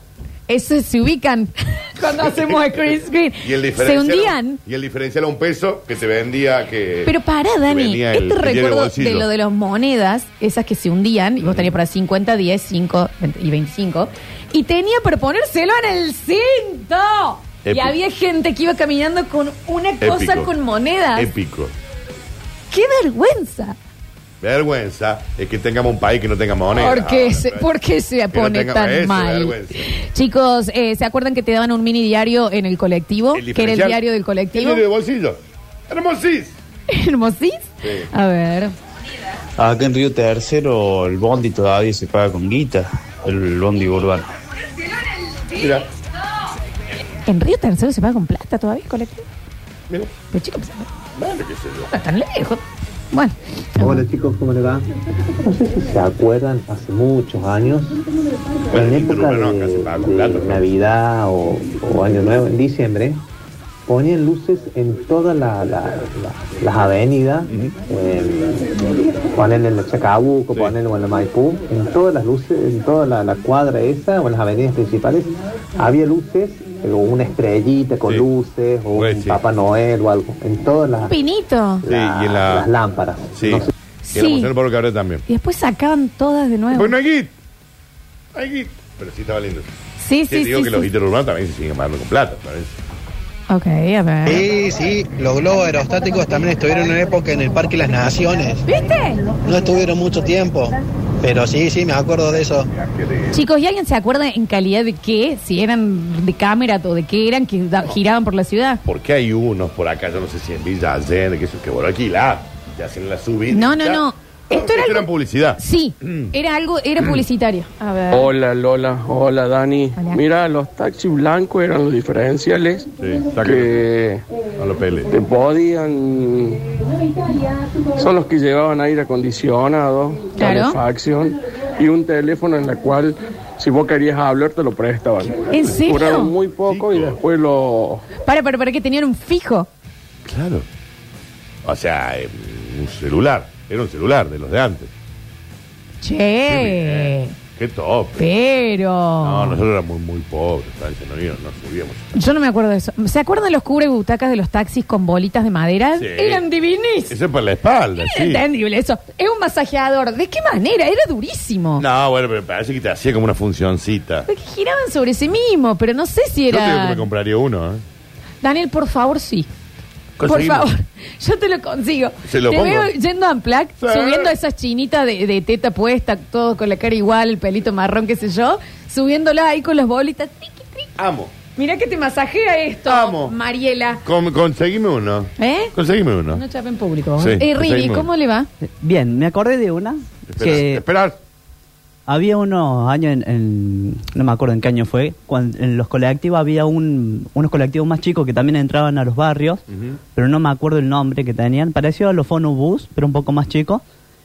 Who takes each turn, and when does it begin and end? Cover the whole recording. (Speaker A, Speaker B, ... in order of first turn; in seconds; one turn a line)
Speaker A: 0.5-4.6
Speaker B: 2.2-2.6
Speaker B: 3.4-7.1
Speaker A: 7.0-21.3
Speaker B: 7.7-9.3
Speaker B: 11.4-11.7
Speaker B: 17.6-17.9
Speaker B: 20.0-20.5
Speaker B: 21.1-21.7
Speaker A: 22.7-23.8
Speaker B: 24.4-27.7
Speaker A: 26.7-34.8
Speaker B: 28.3-29.9
Speaker B: 33.3-34.0
Speaker B: 34.5-36.6
Speaker A: 36.9-38.7
Speaker B: 37.8-38.1
Speaker C: 39.6-44.2
Speaker B: 45.6-45.9
Speaker A: 47.3-49.3
Speaker A: 50.3-50.9
Speaker B: 51.2-51.9
Speaker A: 51.9-54.0
Speaker D: 53.8-58.0
Speaker B: 58.7-60.8
Speaker D: 58.7-63.2
Speaker D: 63.9-81.2
Speaker B: 67.5-67.8
Speaker B: 78.9-79.4
Speaker A: 81.1-81.8
Speaker D: 81.8-83.7
Speaker B: 81.9-82.7
Speaker B: 83.3-85.2
Speaker A: 84.0-84.5
Speaker A: 85.3-86.9
Speaker B: 86.7-87.3
Speaker B: 88.3-89.7
Speaker A: 90.0-90.9
Speaker B: 90.3-92.8
Speaker A: 93.5-94.5
Speaker E: 94.3-98.6
Speaker A: 98.7-99.3
Speaker E: 99.4-102.7
Speaker B: 102.6-103.4
Speaker A: 103.3-108.8
Speaker B: 108.8-116.3
Speaker A: 113.5-118.3
Speaker F: 118.1-122.9
Speaker A: 120.0-120.2
Speaker B: 123.0-123.8
Speaker F: 123.4-124.2
Speaker B: 124.6-125.1
Speaker F: 125.1-126.6
Speaker F: 128.0-138.0
Speaker A: 130.4-130.8
Speaker A: 135.5-136.3
Speaker B: 136.4-137.2
Speaker A: 138.2-139.7
Speaker B: 140.3-140.7
Speaker B: 141.7-144.9
Speaker A: 146.0-147.3
Speaker B: 146.5-148.2
Speaker A: 148.2-149.6
Speaker B: 149.2-152.1
Speaker A: 152.1-157.2
Speaker B: 156.0-156.4
Speaker B: 157.1-158.4
Speaker A: 158.0-161.8
Speaker B: 161.8-164.3
Speaker A: 164.3-167.1
Speaker B: 166.5-167.8
Speaker A: 168.4-169.5
Speaker B: 170.2-170.7
Speaker A: 170.2-180.9
Speaker B: 172.2-172.9
Speaker B: 173.8-174.3
Speaker B: 181.0-181.3
Speaker A: 181.6-184.0
Speaker B: 182.9-183.4
Speaker B: 184.0-186.4
Speaker A: 185.4-185.7
Speaker A: 186.3-188.5
Speaker B: 187.2-188.1
Speaker G: 188.8-190.8
Speaker B: 190.3-191.2
Speaker G: 192.1-199.6
Speaker G: 200.2-203.8